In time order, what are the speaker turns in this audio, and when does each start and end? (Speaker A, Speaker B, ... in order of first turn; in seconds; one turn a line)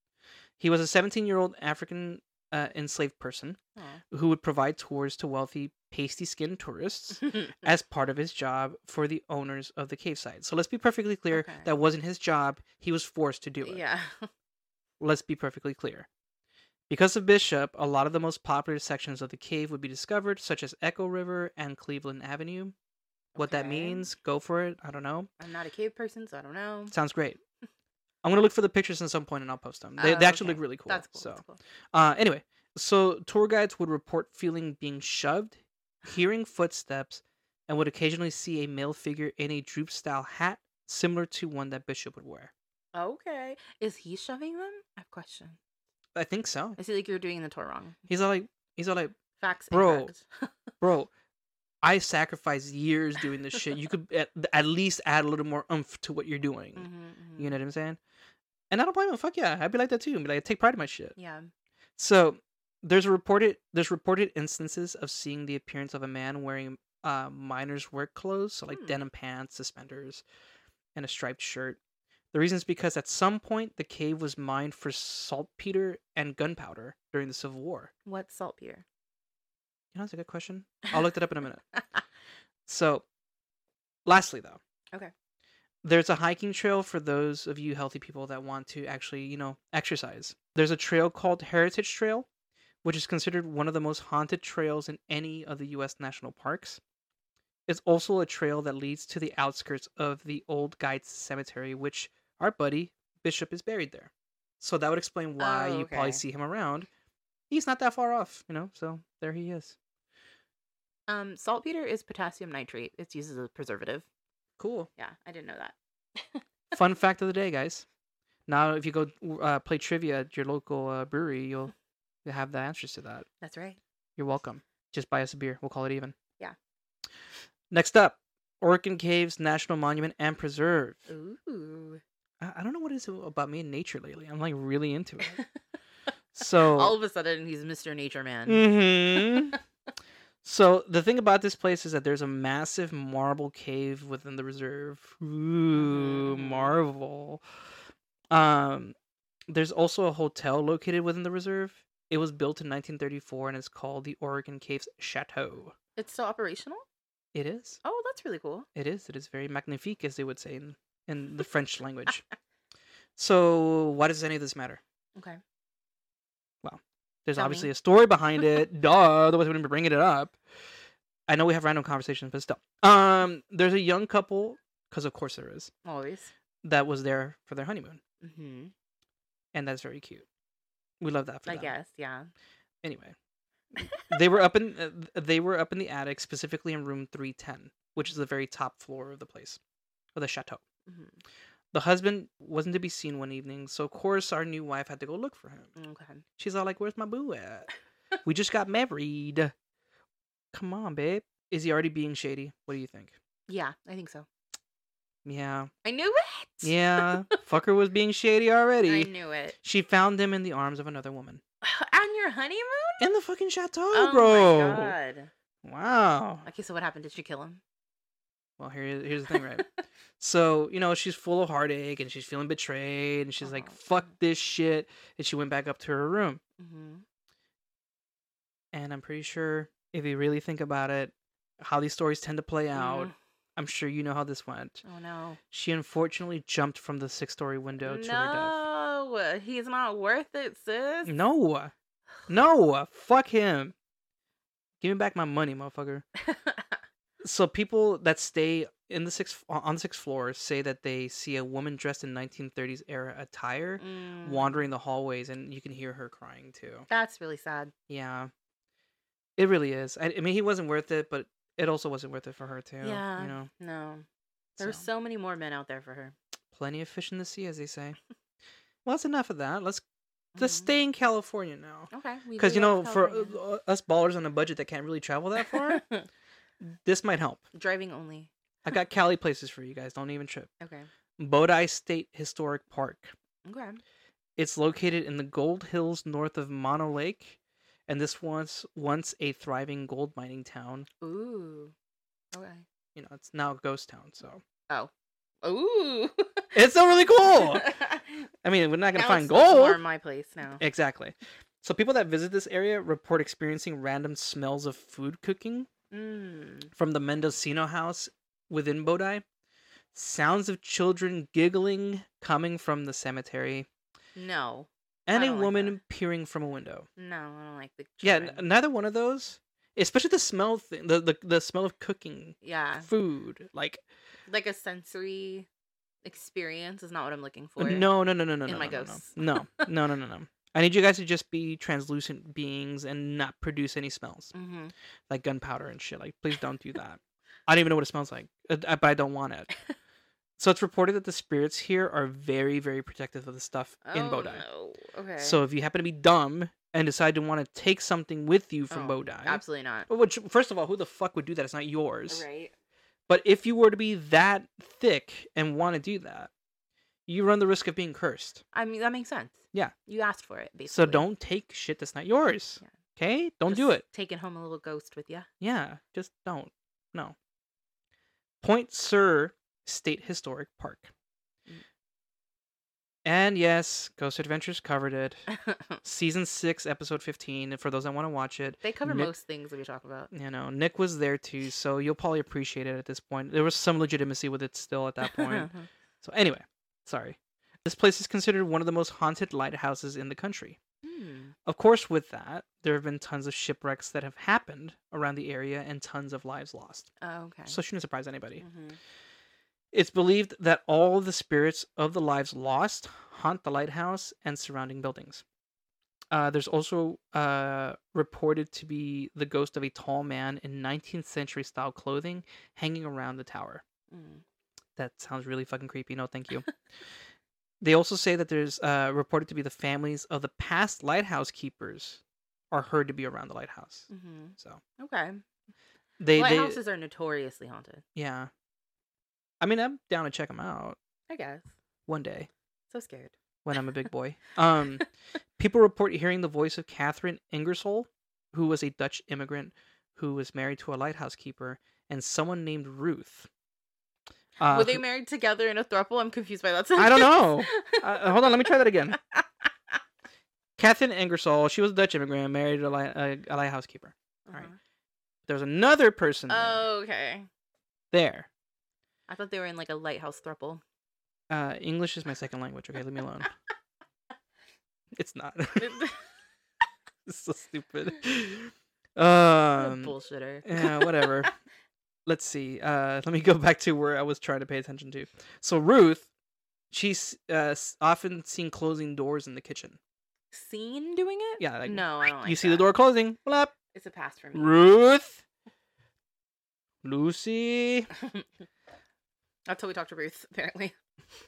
Speaker A: 0.6-3.6
Speaker A: 4.1-13.8
Speaker B: 11.3-11.7
Speaker B: 13.6-14.3
Speaker A: 15.0-16.1
Speaker A: 16.9-22.8
Speaker B: 23.4-24.1
Speaker A: 23.4-25.3
Speaker B: 25.4-26.9
Speaker A: 26.9-27.4
Speaker A: 28.2-31.4
Speaker B: 30.0-31.6
Speaker A: 31.9-42.5
Speaker B: 42.9-45.6
Speaker A: 46.1-46.8
Speaker B: 46.8-48.0
Speaker A: 48.1-49.2
Speaker B: 49.4-50.5
Speaker A: 49.7-50.1
Speaker A: 50.8-51.1
Speaker A: 51.8-56.9
Speaker B: 56.8-57.5
Speaker A: 57.4-58.0
Speaker A: 58.7-61.1
Speaker B: 61.2-61.5
Speaker A: 62.0-70.2
Speaker B: 68.7-69.0
Speaker A: 71.0-71.8
Speaker A: 72.3-77.9
Speaker B: 78.1-78.8
Speaker A: 79.9-81.6
Speaker A: 82.7-83.0
Speaker A: 84.1-84.6
Speaker A: 85.8-92.3
Speaker A: 92.8-96.8
Speaker A: 97.7-106.9
Speaker B: 105.4-106.2
Speaker A: 107.5-109.8
Speaker B: 111.1-114.0
Speaker A: 114.6-114.9
Speaker B: 115.0-116.4
Speaker A: 116.7-117.9
Speaker A: 118.5-121.7
Speaker A: 122.2-123.3
Speaker B: 123.4-123.8
Speaker A: 124.2-126.2
Speaker A: 127.7-131.1
Speaker B: 131.1-132.0
Speaker A: 132.4-135.4
Speaker A: 136.3-137.0
Speaker B: 136.6-139.6
Speaker A: 138.5-139.6
Speaker A: 140.4-147.4
Speaker B: 145.7-146.8
Speaker A: 148.3-148.9
Speaker A: 149.5-155.8
Speaker B: 156.0-156.8
Speaker A: 157.3-157.8
Speaker B: 157.8-158.7
Speaker A: 158.8-162.2
Speaker A: 163.2-164.8
Speaker A: 166.6-170.4
Speaker B: 167.4-167.7
Speaker A: 171.3-175.7
Speaker B: 175.8-176.3
Speaker A: 176.6-178.0
Speaker B: 178.2-178.7
Speaker A: 179.5-180.2
Speaker A: 181.0-181.7
Speaker B: 181.5-182.3
Speaker A: 182.8-183.2
Speaker A: 183.8-189.6
Speaker B: 183.8-184.1
Speaker A: 190.2-190.6
Speaker B: 190.9-191.2
Speaker A: 191.7-195.7
Speaker B: 195.8-196.2
Speaker A: 196.4-197.7
Speaker A: 198.2-199.5
Speaker A: 200.5-203.2
Speaker B: 203.5-204.3
Speaker A: 205.2-205.7
Speaker B: 205.8-207.4
Speaker A: 206.6-209.1
Speaker B: 208.8-209.6
Speaker A: 209.6-211.4
Speaker B: 211.6-213.1
Speaker A: 213.0-214.9
Speaker B: 213.9-215.3
Speaker A: 215.6-216.5
Speaker B: 216.4-217.6
Speaker A: 218.6-219.7
Speaker B: 219.3-219.6
Speaker A: 220.2-226.4
Speaker B: 223.4-223.8
Speaker B: 226.6-227.0
Speaker A: 228.7-234.8
Speaker B: 232.8-233.1
Speaker B: 234.8-235.4
Speaker A: 235.5-238.6
Speaker B: 237.8-241.1
Speaker A: 241.1-241.7
Speaker A: 242.3-243.7
Speaker A: 244.8-246.1
Speaker B: 246.3-246.8
Speaker A: 247.2-256.9
Speaker B: 253.8-254.7
Speaker B: 256.9-257.7
Speaker A: 257.9-258.3
Speaker A: 259.4-263.5
Speaker B: 262.8-264.1
Speaker A: 264.6-264.9
Speaker B: 264.6-266.1
Speaker A: 266.5-268.0
Speaker A: 268.9-269.8
Speaker B: 270.4-270.7
Speaker A: 270.4-275.8
Speaker B: 271.9-273.4
Speaker B: 275.5-276.1
Speaker A: 276.6-277.4
Speaker B: 277.5-278.3
Speaker A: 278.6-280.5
Speaker B: 280.6-280.9
Speaker A: 281.2-283.1
Speaker B: 283.4-283.8
Speaker A: 284.4-287.4
Speaker A: 287.9-290.9
Speaker B: 291.0-291.7
Speaker B: 292.3-292.6
Speaker A: 292.9-294.4
Speaker B: 295.4-296.6
Speaker A: 296.5-297.7
Speaker B: 297.2-298.2
Speaker A: 298.4-299.8
Speaker B: 298.9-300.6
Speaker A: 300.6-305.7
Speaker B: 305.9-306.7
Speaker A: 306.8-309.2
Speaker A: 309.9-313.7
Speaker B: 314.1-315.8
Speaker A: 315.1-316.9
Speaker B: 317.0-318.5
Speaker A: 318.0-323.8
Speaker B: 322.4-322.9
Speaker B: 324.3-325.5
Speaker B: 326.0-327.9
Speaker A: 327.6-334.3
Speaker B: 328.5-329.7
Speaker B: 334.3-334.7
Speaker A: 335.1-339.5
Speaker A: 340.4-344.4
Speaker B: 343.8-345.4
Speaker A: 345.2-352.2
Speaker B: 348.7-349.9
Speaker B: 352.1-352.5
Speaker A: 353.1-356.3
Speaker A: 357.1-358.4
Speaker B: 358.5-361.1
Speaker A: 360.7-363.8
Speaker B: 363.5-365.3
Speaker A: 365.4-367.1
Speaker A: 368.4-370.9
Speaker A: 373.1-375.3
Speaker B: 375.3-375.8
Speaker A: 375.8-379.1
Speaker B: 378.6-380.1
Speaker A: 380.1-385.5
Speaker B: 385.1-385.7
Speaker A: 386.0-390.6
Speaker B: 390.8-391.4
Speaker A: 391.5-396.9
Speaker B: 397.0-397.6
Speaker A: 397.5-398.4
Speaker B: 398.4-398.8
Speaker A: 399.7-405.2
Speaker A: 406.1-413.6
Speaker B: 413.9-414.2
Speaker A: 414.8-416.5
Speaker A: 417.6-424.6
Speaker B: 423.9-425.2
Speaker A: 426.0-426.6
Speaker B: 426.1-427.8
Speaker A: 427.9-428.3
Speaker A: 429.4-430.8
Speaker B: 431.1-431.5
Speaker A: 431.9-432.3
Speaker B: 432.7-433.1
Speaker A: 433.4-434.9
Speaker A: 435.4-443.3
Speaker A: 444.4-444.8
Speaker B: 444.5-449.2
Speaker A: 446.8-449.0
Speaker A: 450.6-454.5
Speaker B: 454.3-454.6
Speaker A: 455.3-456.7
Speaker B: 456.3-457.3
Speaker A: 457.9-458.3
Speaker B: 459.1-460.6
Speaker A: 461.3-463.3
Speaker A: 464.9-465.9
Speaker B: 465.6-466.0
Speaker A: 467.1-469.9
Speaker B: 469.6-471.3
Speaker A: 470.4-471.3
Speaker A: 472.1-476.1
Speaker A: 476.7-479.8
Speaker B: 480.3-482.7
Speaker A: 481.4-483.5
Speaker B: 483.7-484.6
Speaker A: 484.3-485.2
Speaker A: 486.8-487.9
Speaker B: 488.0-488.2
Speaker B: 489.5-490.8